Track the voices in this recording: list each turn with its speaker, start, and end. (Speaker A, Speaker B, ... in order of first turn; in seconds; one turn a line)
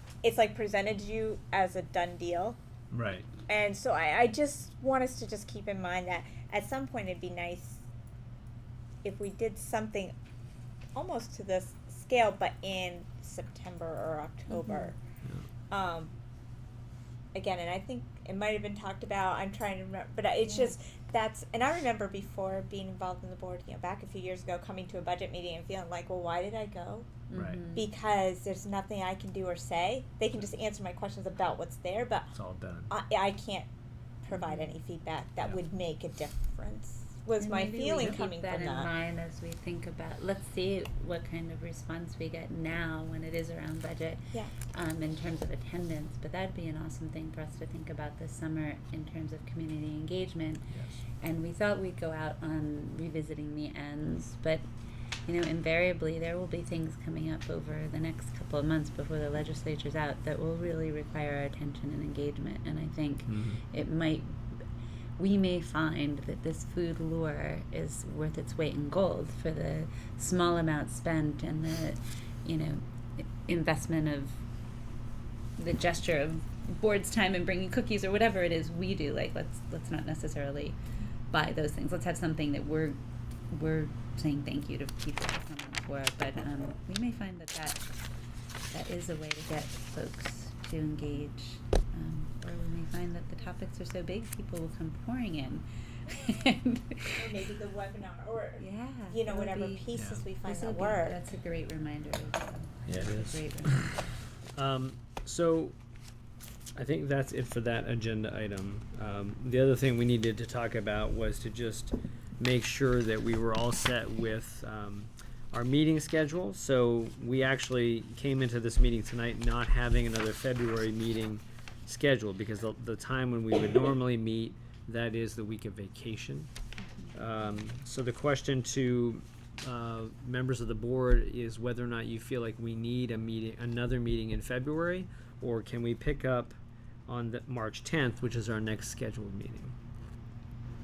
Speaker A: 0.2-2.6
Speaker B: 2.9-3.2
Speaker A: 3.5-7.8
Speaker A: 9.0-10.1
Speaker A: 10.9-15.0
Speaker C: 14.5-14.9
Speaker A: 15.7-16.1
Speaker A: 17.3-27.1
Speaker C: 20.4-20.7
Speaker C: 27.3-27.9
Speaker B: 27.3-27.6
Speaker A: 27.7-32.3
Speaker B: 32.3-32.9
Speaker A: 32.9-33.7
Speaker A: 34.2-38.9
Speaker C: 34.3-34.7
Speaker C: 37.4-54.6
Speaker B: 38.0-38.2
Speaker C: 55.2-64.4
Speaker B: 63.3-63.6
Speaker C: 65.2-74.4
Speaker C: 75.6-80.8
Speaker C: 81.3-83.0
Speaker C: 83.5-87.9
Speaker C: 88.7-97.3
Speaker A: 97.1-101.2
Speaker C: 98.6-104.2
Speaker B: 99.9-100.2
Speaker B: 102.8-105.7
Speaker B: 106.7-126.5
Speaker C: 126.8-127.1
Speaker B: 127.1-136.5
Speaker B: 137.1-139.7